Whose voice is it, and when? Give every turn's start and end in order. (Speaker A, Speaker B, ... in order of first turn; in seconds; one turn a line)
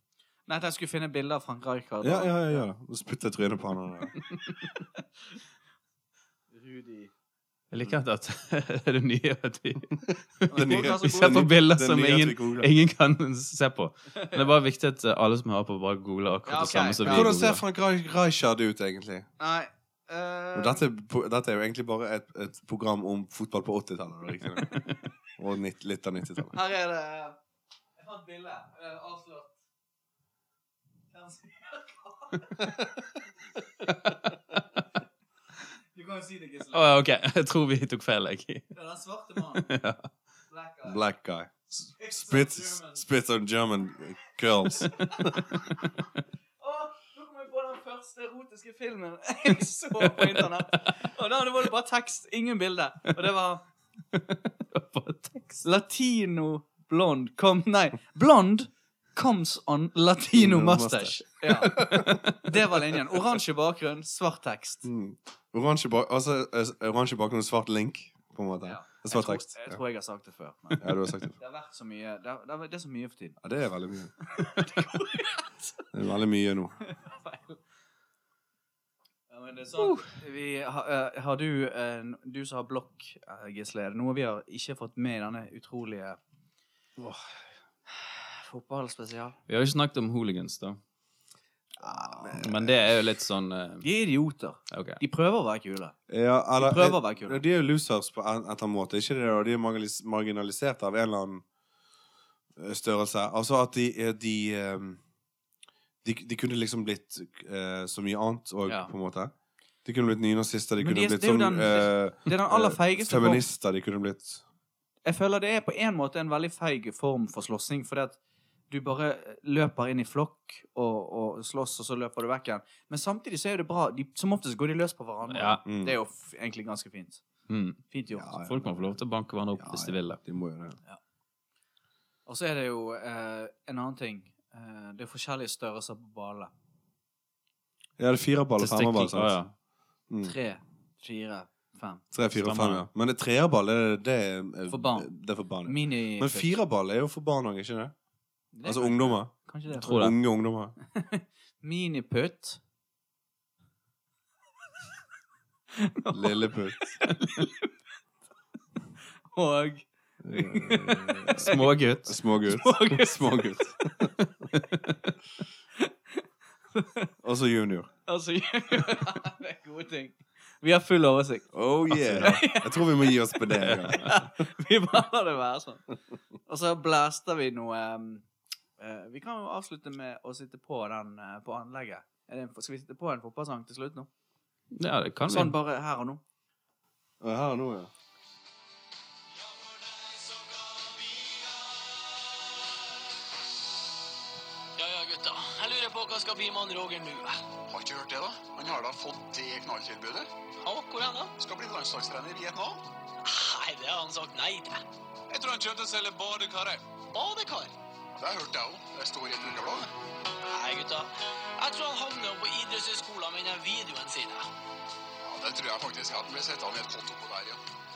Speaker A: 0.5-2.7
Speaker B: 2.0-4.2
Speaker A: 6.5-7.1
Speaker C: 7.7-17.6
Speaker B: 10.0-12.7
Speaker A: 10.5-11.5
Speaker A: 14.1-14.6
Speaker A: 16.5-17.3
Speaker B: 17.1-19.3
Speaker A: 19.4-20.8
Speaker B: 20.6-24.8
Speaker B: 25.4-26.6
Speaker A: 26.5-27.4
Speaker A: 28.0-29.5
Speaker A: 31.1-32.9
Speaker A: 36.0-37.0
Speaker C: 36.7-38.7
Speaker A: 38.7-39.7
Speaker C: 39.5-40.0
Speaker A: 40.5-41.0
Speaker B: 40.9-45.4
Speaker A: 42.0-43.0
Speaker A: 46.6-53.6
Speaker C: 54.1-55.6
Speaker A: 55.6-64.9
Speaker B: 60.3-62.3
Speaker C: 61.7-62.4
Speaker B: 64.8-69.8
Speaker A: 68.6-73.4
Speaker B: 70.8-71.3
Speaker B: 73.4-74.1
Speaker A: 74.4-75.8
Speaker B: 75.9-76.8
Speaker A: 76.8-77.6
Speaker A: 79.3-86.2
Speaker B: 87.0-87.2
Speaker A: 87.9-89.4
Speaker C: 89.5-90.8
Speaker A: 91.8-92.4
Speaker B: 91.8-92.8
Speaker C: 92.3-93.9
Speaker A: 93.8-96.0
Speaker C: 94.7-95.0
Speaker B: 96.1-101.4
Speaker A: 96.6-97.4
Speaker B: 102.6-105.0
Speaker B: 106.0-109.3
Speaker B: 109.8-114.4
Speaker A: 110.8-113.4
Speaker A: 115.0-118.2
Speaker A: 118.7-127.2
Speaker C: 125.3-125.6
Speaker B: 125.7-126.0
Speaker C: 127.5-127.8
Speaker A: 127.9-128.3
Speaker B: 128.2-129.0
Speaker C: 128.4-130.2
Speaker B: 129.6-130.8
Speaker A: 132.3-136.5
Speaker B: 138.0-139.4
Speaker C: 138.6-139.5
Speaker B: 140.1-140.3
Speaker A: 140.2-142.0
Speaker B: 142.1-147.9
Speaker C: 142.3-142.8
Speaker A: 144.7-145.1
Speaker A: 145.7-146.5
Speaker A: 148.5-150.1
Speaker B: 148.6-150.8
Speaker C: 149.7-150.2
Speaker A: 150.9-152.6
Speaker A: 155.7-157.7
Speaker B: 156.1-157.0
Speaker A: 159.3-163.4
Speaker B: 160.2-164.5
Speaker C: 161.4-162.1
Speaker A: 165.8-166.2
Speaker A: 166.8-167.1
Speaker B: 167.2-167.9
Speaker A: 168.1-175.9
Speaker B: 171.5-174.3
Speaker C: 172.1-172.4
Speaker C: 173.6-174.2
Speaker A: 176.5-178.3
Speaker A: 178.8-184.1
Speaker C: 184.8-185.6
Speaker A: 185.3-186.2
Speaker B: 187.2-187.9
Speaker D: 189.3-192.6
Speaker D: 194.8-197.4
Speaker E: 197.7-200.3
Speaker D: 200.6-201.3
Speaker E: 201.4-202.9
Speaker D: 203.2-204.8
Speaker E: 205.3-206.9
Speaker D: 207.1-207.8
Speaker E: 208.2-209.9
Speaker D: 210.4-214.5
Speaker E: 215.2-217.6